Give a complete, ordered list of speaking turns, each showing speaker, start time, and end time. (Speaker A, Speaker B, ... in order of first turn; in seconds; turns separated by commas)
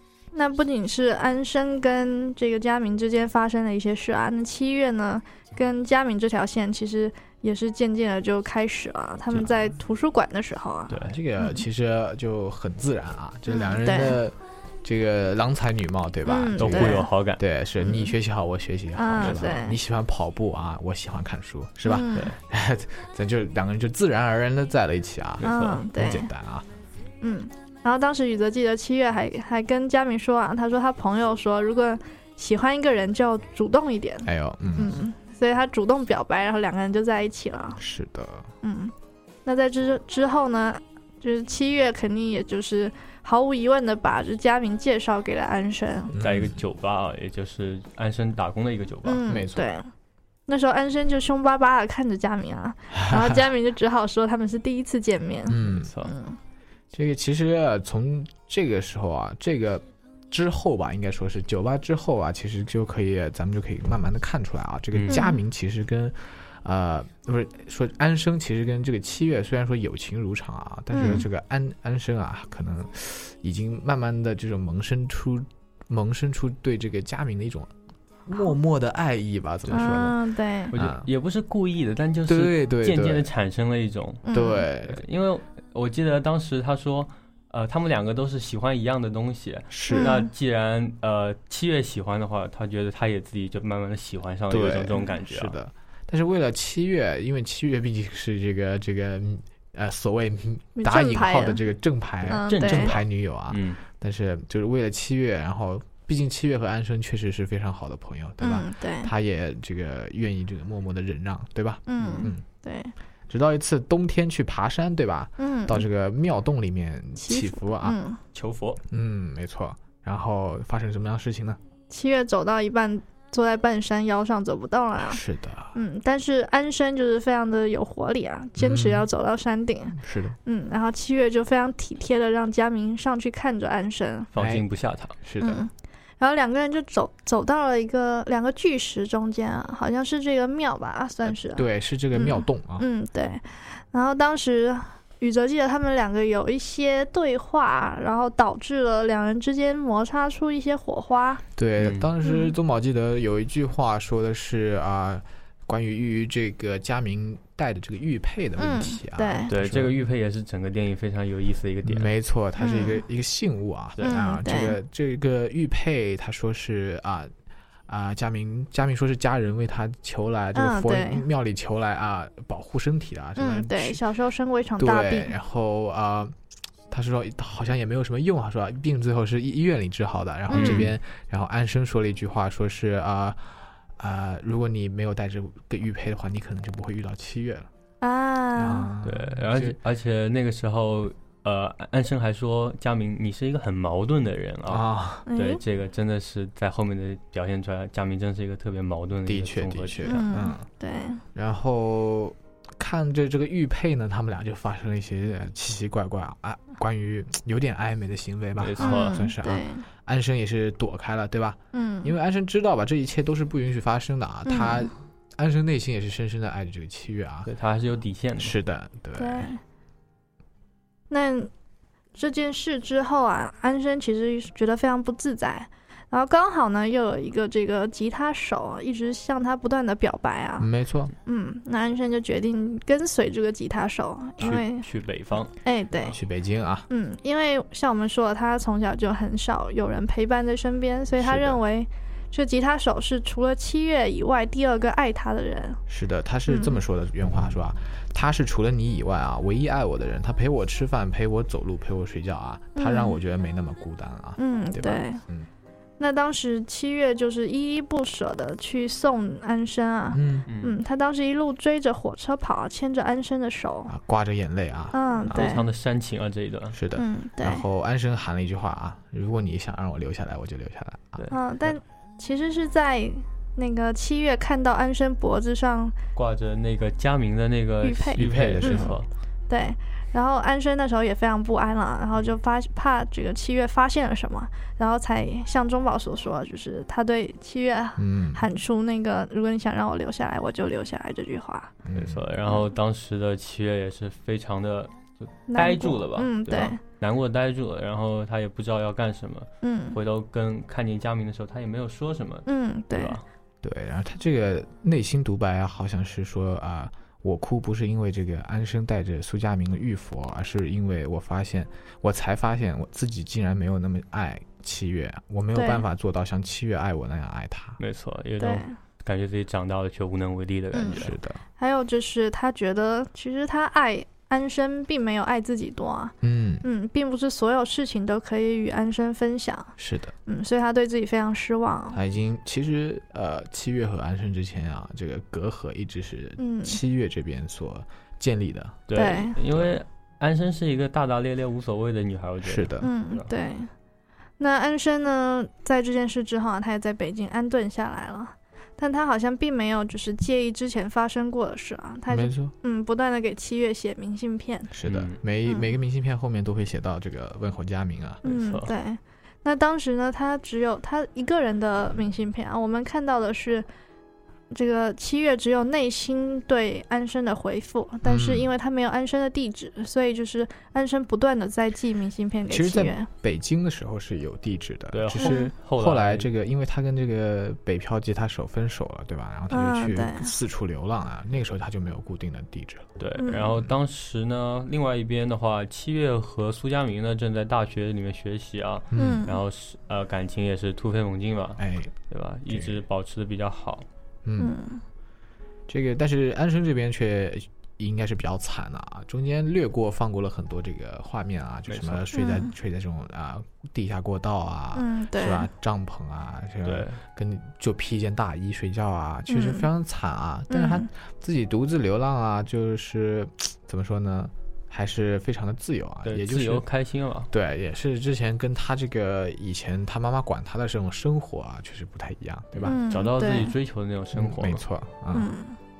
Speaker A: 0.3-11.6, Speaker B: 10.9-11.2, Speaker C: 11.0-26.6, Speaker A: 13.5-14.2, Speaker A: 16.2-17.1, Speaker B: 16.6-17.4, Speaker A: 17.8-18.1, Speaker A: 18.9-19.8, Speaker B: 19.2-19.5, Speaker A: 21.8-22.3, Speaker B: 25.4-25.8, Speaker A: 25.4-26.3, Speaker A: 27.2-37.8, Speaker C: 34.2-35.0, Speaker C: 37.8-38.5, Speaker A: 38.6-38.9, Speaker A: 39.4-46.1, Speaker C: 46.1-46.6, Speaker B: 46.2-49.2, Speaker A: 49.0-49.9, Speaker C: 49.3-49.6, Speaker A: 50.5-56.4, Speaker C: 52.9-53.5, Speaker C: 55.5-55.9, Speaker B: 55.6-56.1, Speaker C: 56.9-77.7, Speaker B: 64.9-65.2, Speaker A: 65.1-65.4, Speaker A: 70.9-71.2, Speaker C: 78.2-80.2, Speaker B: 79.7-80.1, Speaker A: 79.7-80.7, Speaker B: 80.7-84.2, Speaker C: 80.7-81.1, Speaker C: 82.3-83.3, Speaker A: 84.2-84.7, Speaker C: 84.3-85.0, Speaker B: 84.9-95.5, Speaker C: 89.7-90.2, Speaker A: 89.9-90.3, Speaker C: 94.5-112.4, Speaker A: 100.8-101.6, Speaker A: 102.3-103.0, Speaker B: 102.5-103.8, Speaker A: 108.4-109.1, Speaker A: 111.9-112.9, Speaker B: 112.0-112.2, Speaker C: 113.3-118.0, Speaker A: 115.4-115.8, Speaker A: 117.2-118.2, Speaker B: 118.3-118.8, Speaker C: 118.9-121.6, Speaker A: 121.9-125.2, Speaker C: 125.0-125.8, Speaker A: 125.7-134.3, Speaker C: 128.6-129.1, Speaker C: 129.9-130.4, Speaker B: 134.3-135.1, Speaker C: 134.3-134.6, Speaker C: 135.2-135.6, Speaker A: 135.4-151.4, Speaker C: 141.4-142.8, Speaker C: 151.6-159.9, Speaker B: 151.8-152.1, Speaker A: 152.2-152.5, Speaker A: 158.6-159.5, Speaker B: 159.5-162.1, Speaker C: 161.8-167.3, Speaker A: 162.6-163.0, Speaker A: 164.0-164.8, Speaker C: 167.9-174.0, Speaker A: 170.5-171.2, Speaker A: 173.4-175.3, Speaker C: 174.8-176.3, Speaker C: 176.9-183.4, Speaker A: 180.5-180.8, Speaker B: 180.5-180.9, Speaker C: 184.0-187.7, Speaker A: 188.0-188.9, Speaker C: 188.6-189.8, Speaker B: 189.0-200.2, Speaker C: 194.7-195.2, Speaker A: 195.3-195.6, Speaker C: 199.2-200.7, Speaker A: 200.1-201.2, Speaker C: 201.3-217.5, Speaker B: 208.6-209.2, Speaker A: 208.8-209.8, Speaker A: 211.7-212.1, Speaker A: 214.4-214.9, Speaker B: 217.4-218.5, Speaker C: 218.4-219.5, Speaker A: 219.2-219.6, Speaker A: 221.1-221.5, Speaker A: 222.2-230.7, Speaker C: 230.6-231.1, Speaker A: 231.2-234.8, Speaker B: 234.4-235.5, Speaker A: 235.6-236.2, Speaker C: 236.1-236.9, Speaker A: 236.9-245.8, Speaker C: 241.2-241.6, Speaker C: 245.9-255.5, Speaker A: 246.5-246.8, Speaker A: 252.8-253.2, Speaker A: 254.4-255.2, Speaker A: 256.0-263.9, Speaker C: 260.1-260.5, Speaker B: 260.5-260.8, Speaker C: 263.9-265.6, Speaker A: 264.9-265.6, Speaker B: 265.3-266.8, Speaker C: 266.7-271.2, Speaker A: 266.9-267.6, Speaker A: 271.3-275.9, Speaker B: 276.1-279.1, Speaker A: 277.8-278.9, Speaker C: 278.2-279.0, Speaker A: 279.5-291.7, Speaker C: 288.0-288.4, Speaker C: 291.8-292.2, Speaker B: 291.9-303.2, Speaker A: 295.5-296.8, Speaker A: 299.6-300.0, Speaker A: 302.4-303.2, Speaker C: 303.6-317.8, Speaker A: 315.5-315.8, Speaker B: 317.8-321.1, Speaker A: 318.4-318.7, Speaker A: 320.7-321.0, Speaker C: 320.9-321.4, Speaker A: 321.6-329.7, Speaker C: 326.2-326.6, Speaker C: 329.8-330.1, Speaker A: 330.2-332.0, Speaker C: 331.9-338.9, Speaker A: 336.4-336.8, Speaker B: 338.9-343.3, Speaker A: 338.9-339.4, Speaker C: 339.4-339.8, Speaker C: 342.4-342.9, Speaker A: 342.8-343.7, Speaker A: 344.4-354.7, Speaker C: 352.1-352.5, Speaker C: 354.7-358.2, Speaker B: 354.9-355.2, Speaker B: 358.2-358.7, Speaker A: 358.2-363.6, Speaker A: 364.5-373.1, Speaker C: 368.0-368.5, Speaker C: 372.5-382.9, Speaker B: 374.9-376.3, Speaker A: 375.2-375.5, Speaker A: 379.5-380.3, Speaker B: 383.0-393.9, Speaker A: 383.2-383.5, Speaker C: 388.9-389.2, Speaker A: 388.9-389.4, Speaker C: 391.6-391.9, Speaker C: 392.5-392.8, Speaker C: 394.2-394.5, Speaker A: 394.4-394.8, Speaker C: 395.7-416.6, Speaker B: 401.7-402.0, Speaker A: 402.1-402.5, Speaker A: 404.7-405.5, Speaker B: 406.6-407.0, Speaker A: 409.3-409.7, Speaker A: 410.5-410.9, Speaker B: 416.0-417.3, Speaker C: 417.3-422.8, Speaker B: 422.6-424.6, Speaker A: 422.6-423.5, Speaker C: 424.1-425.3, Speaker A: 425.1-425.6